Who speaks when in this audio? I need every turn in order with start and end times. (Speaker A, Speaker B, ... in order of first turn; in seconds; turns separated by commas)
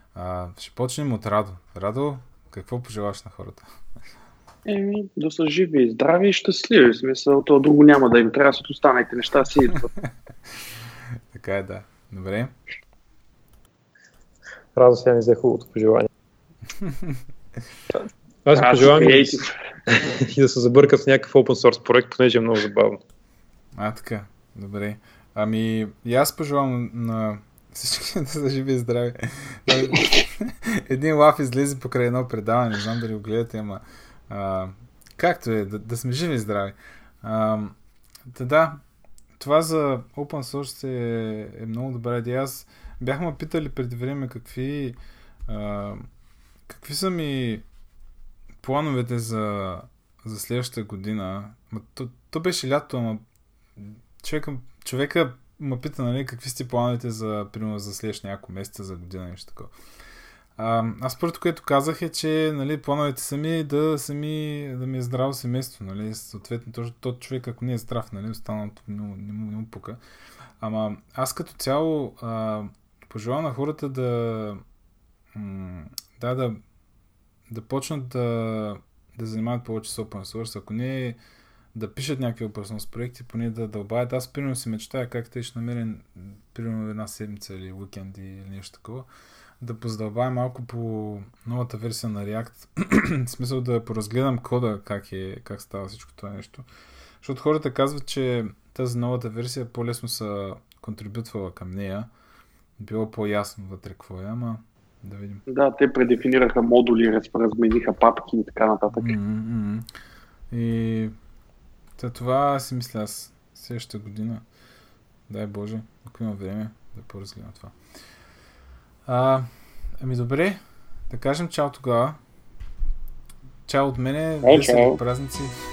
Speaker A: 0.1-3.6, Speaker B: 4.7-9.9, Speaker A: 11.3-12.5, Speaker C: 14.8-16.1, Speaker A: 16.8-17.2, Speaker C: 17.9-23.0, Speaker B: 18.5-19.5, Speaker A: 23.8-38.8, Speaker A: 39.4-46.0, Speaker A: 46.7-47.6, Speaker A: 48.6-53.2, Speaker A: 53.8-59.7, Speaker A: 60.6-70.0, Speaker A: 70.6-74.6, Speaker A: 75.3-76.6, Speaker A: 77.5-81.2, Speaker A: 81.7-89.1, Speaker A: 89.6-96.7, Speaker A: 97.2-102.1, Speaker A: 102.8-105.4, Speaker B: 105.5-109.1, Speaker A: 108.9-109.9, Speaker A: 110.5-111.1, Speaker A: 112.0-114.4, Speaker A: 115.3-117.8, Speaker A: 119.1-119.5, Speaker A: 120.0-122.2, Speaker A: 123.7-125.6, Speaker B: 124.4-125.0